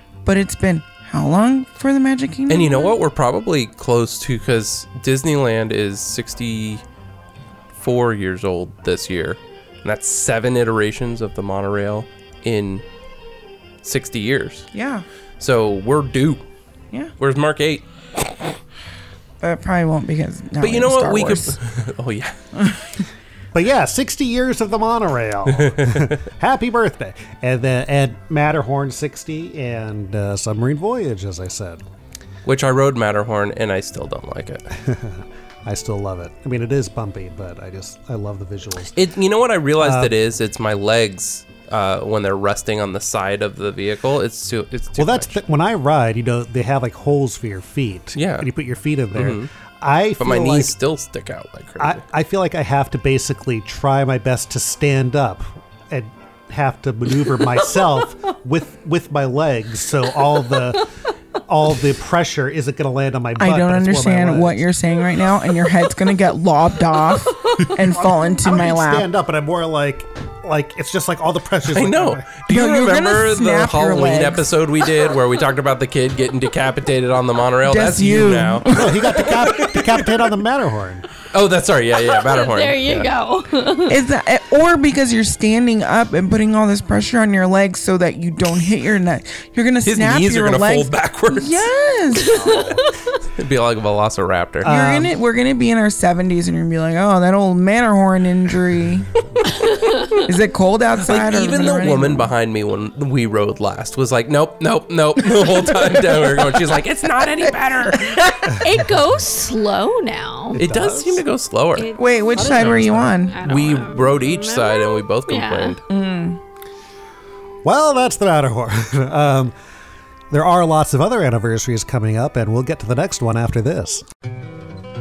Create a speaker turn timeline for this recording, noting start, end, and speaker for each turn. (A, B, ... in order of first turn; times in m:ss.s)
0:00.2-0:03.0 A
0:02.5-0:06.8 B
0:07.8-0:12.8 B
0:13.8-0:14.7 B
0:14.7-0:15.0 A
0:15.4-0:16.4 B
0:17.2-0:17.8 B
0:19.4-0:21.6 A
0:20.6-0:22.4 B
0:23.5-0:31.8 C
0:25.6-0:26.2 B
0:32.4-0:34.6 B
0:34.7-0:38.9 C
0:39.0-0:45.4 B
0:39.8-0:40.2 C
0:45.0-0:50.8 C
0:48.2-0:48.5 B
0:49.1-0:49.5 B
0:50.2-0:52.0 B
0:51.8-1:00.9 C
1:01.4-1:04.7 C
1:03.4-1:09.1 A
1:07.8-1:12.2 C
1:11.7-1:20.1 B
1:12.5-1:14.5 A
1:17.6-1:18.9 A
1:18.7-1:21.0 C
1:21.3-1:23.1 B
1:22.0-1:24.0 D
1:23.9-1:32.4 A
1:29.8-1:31.7 B
1:32.2-1:32.8 D
1:33.4-1:34.7 B
1:34.6-1:35.1 C
1:34.6-1:39.1 A
1:39.5-1:40.2 D
1:40.3-1:42.3 A
1:41.0-1:48.5 B
1:47.4-1:50.6 D
1:50.5-1:51.3 C
1:50.6-1:55.8 B
1:51.8-1:55.8 D
1:52.0-1:53.4 A
1:55.9-1:56.4 A
1:57.6-1:59.6 C
2:00.3-2:04.0 C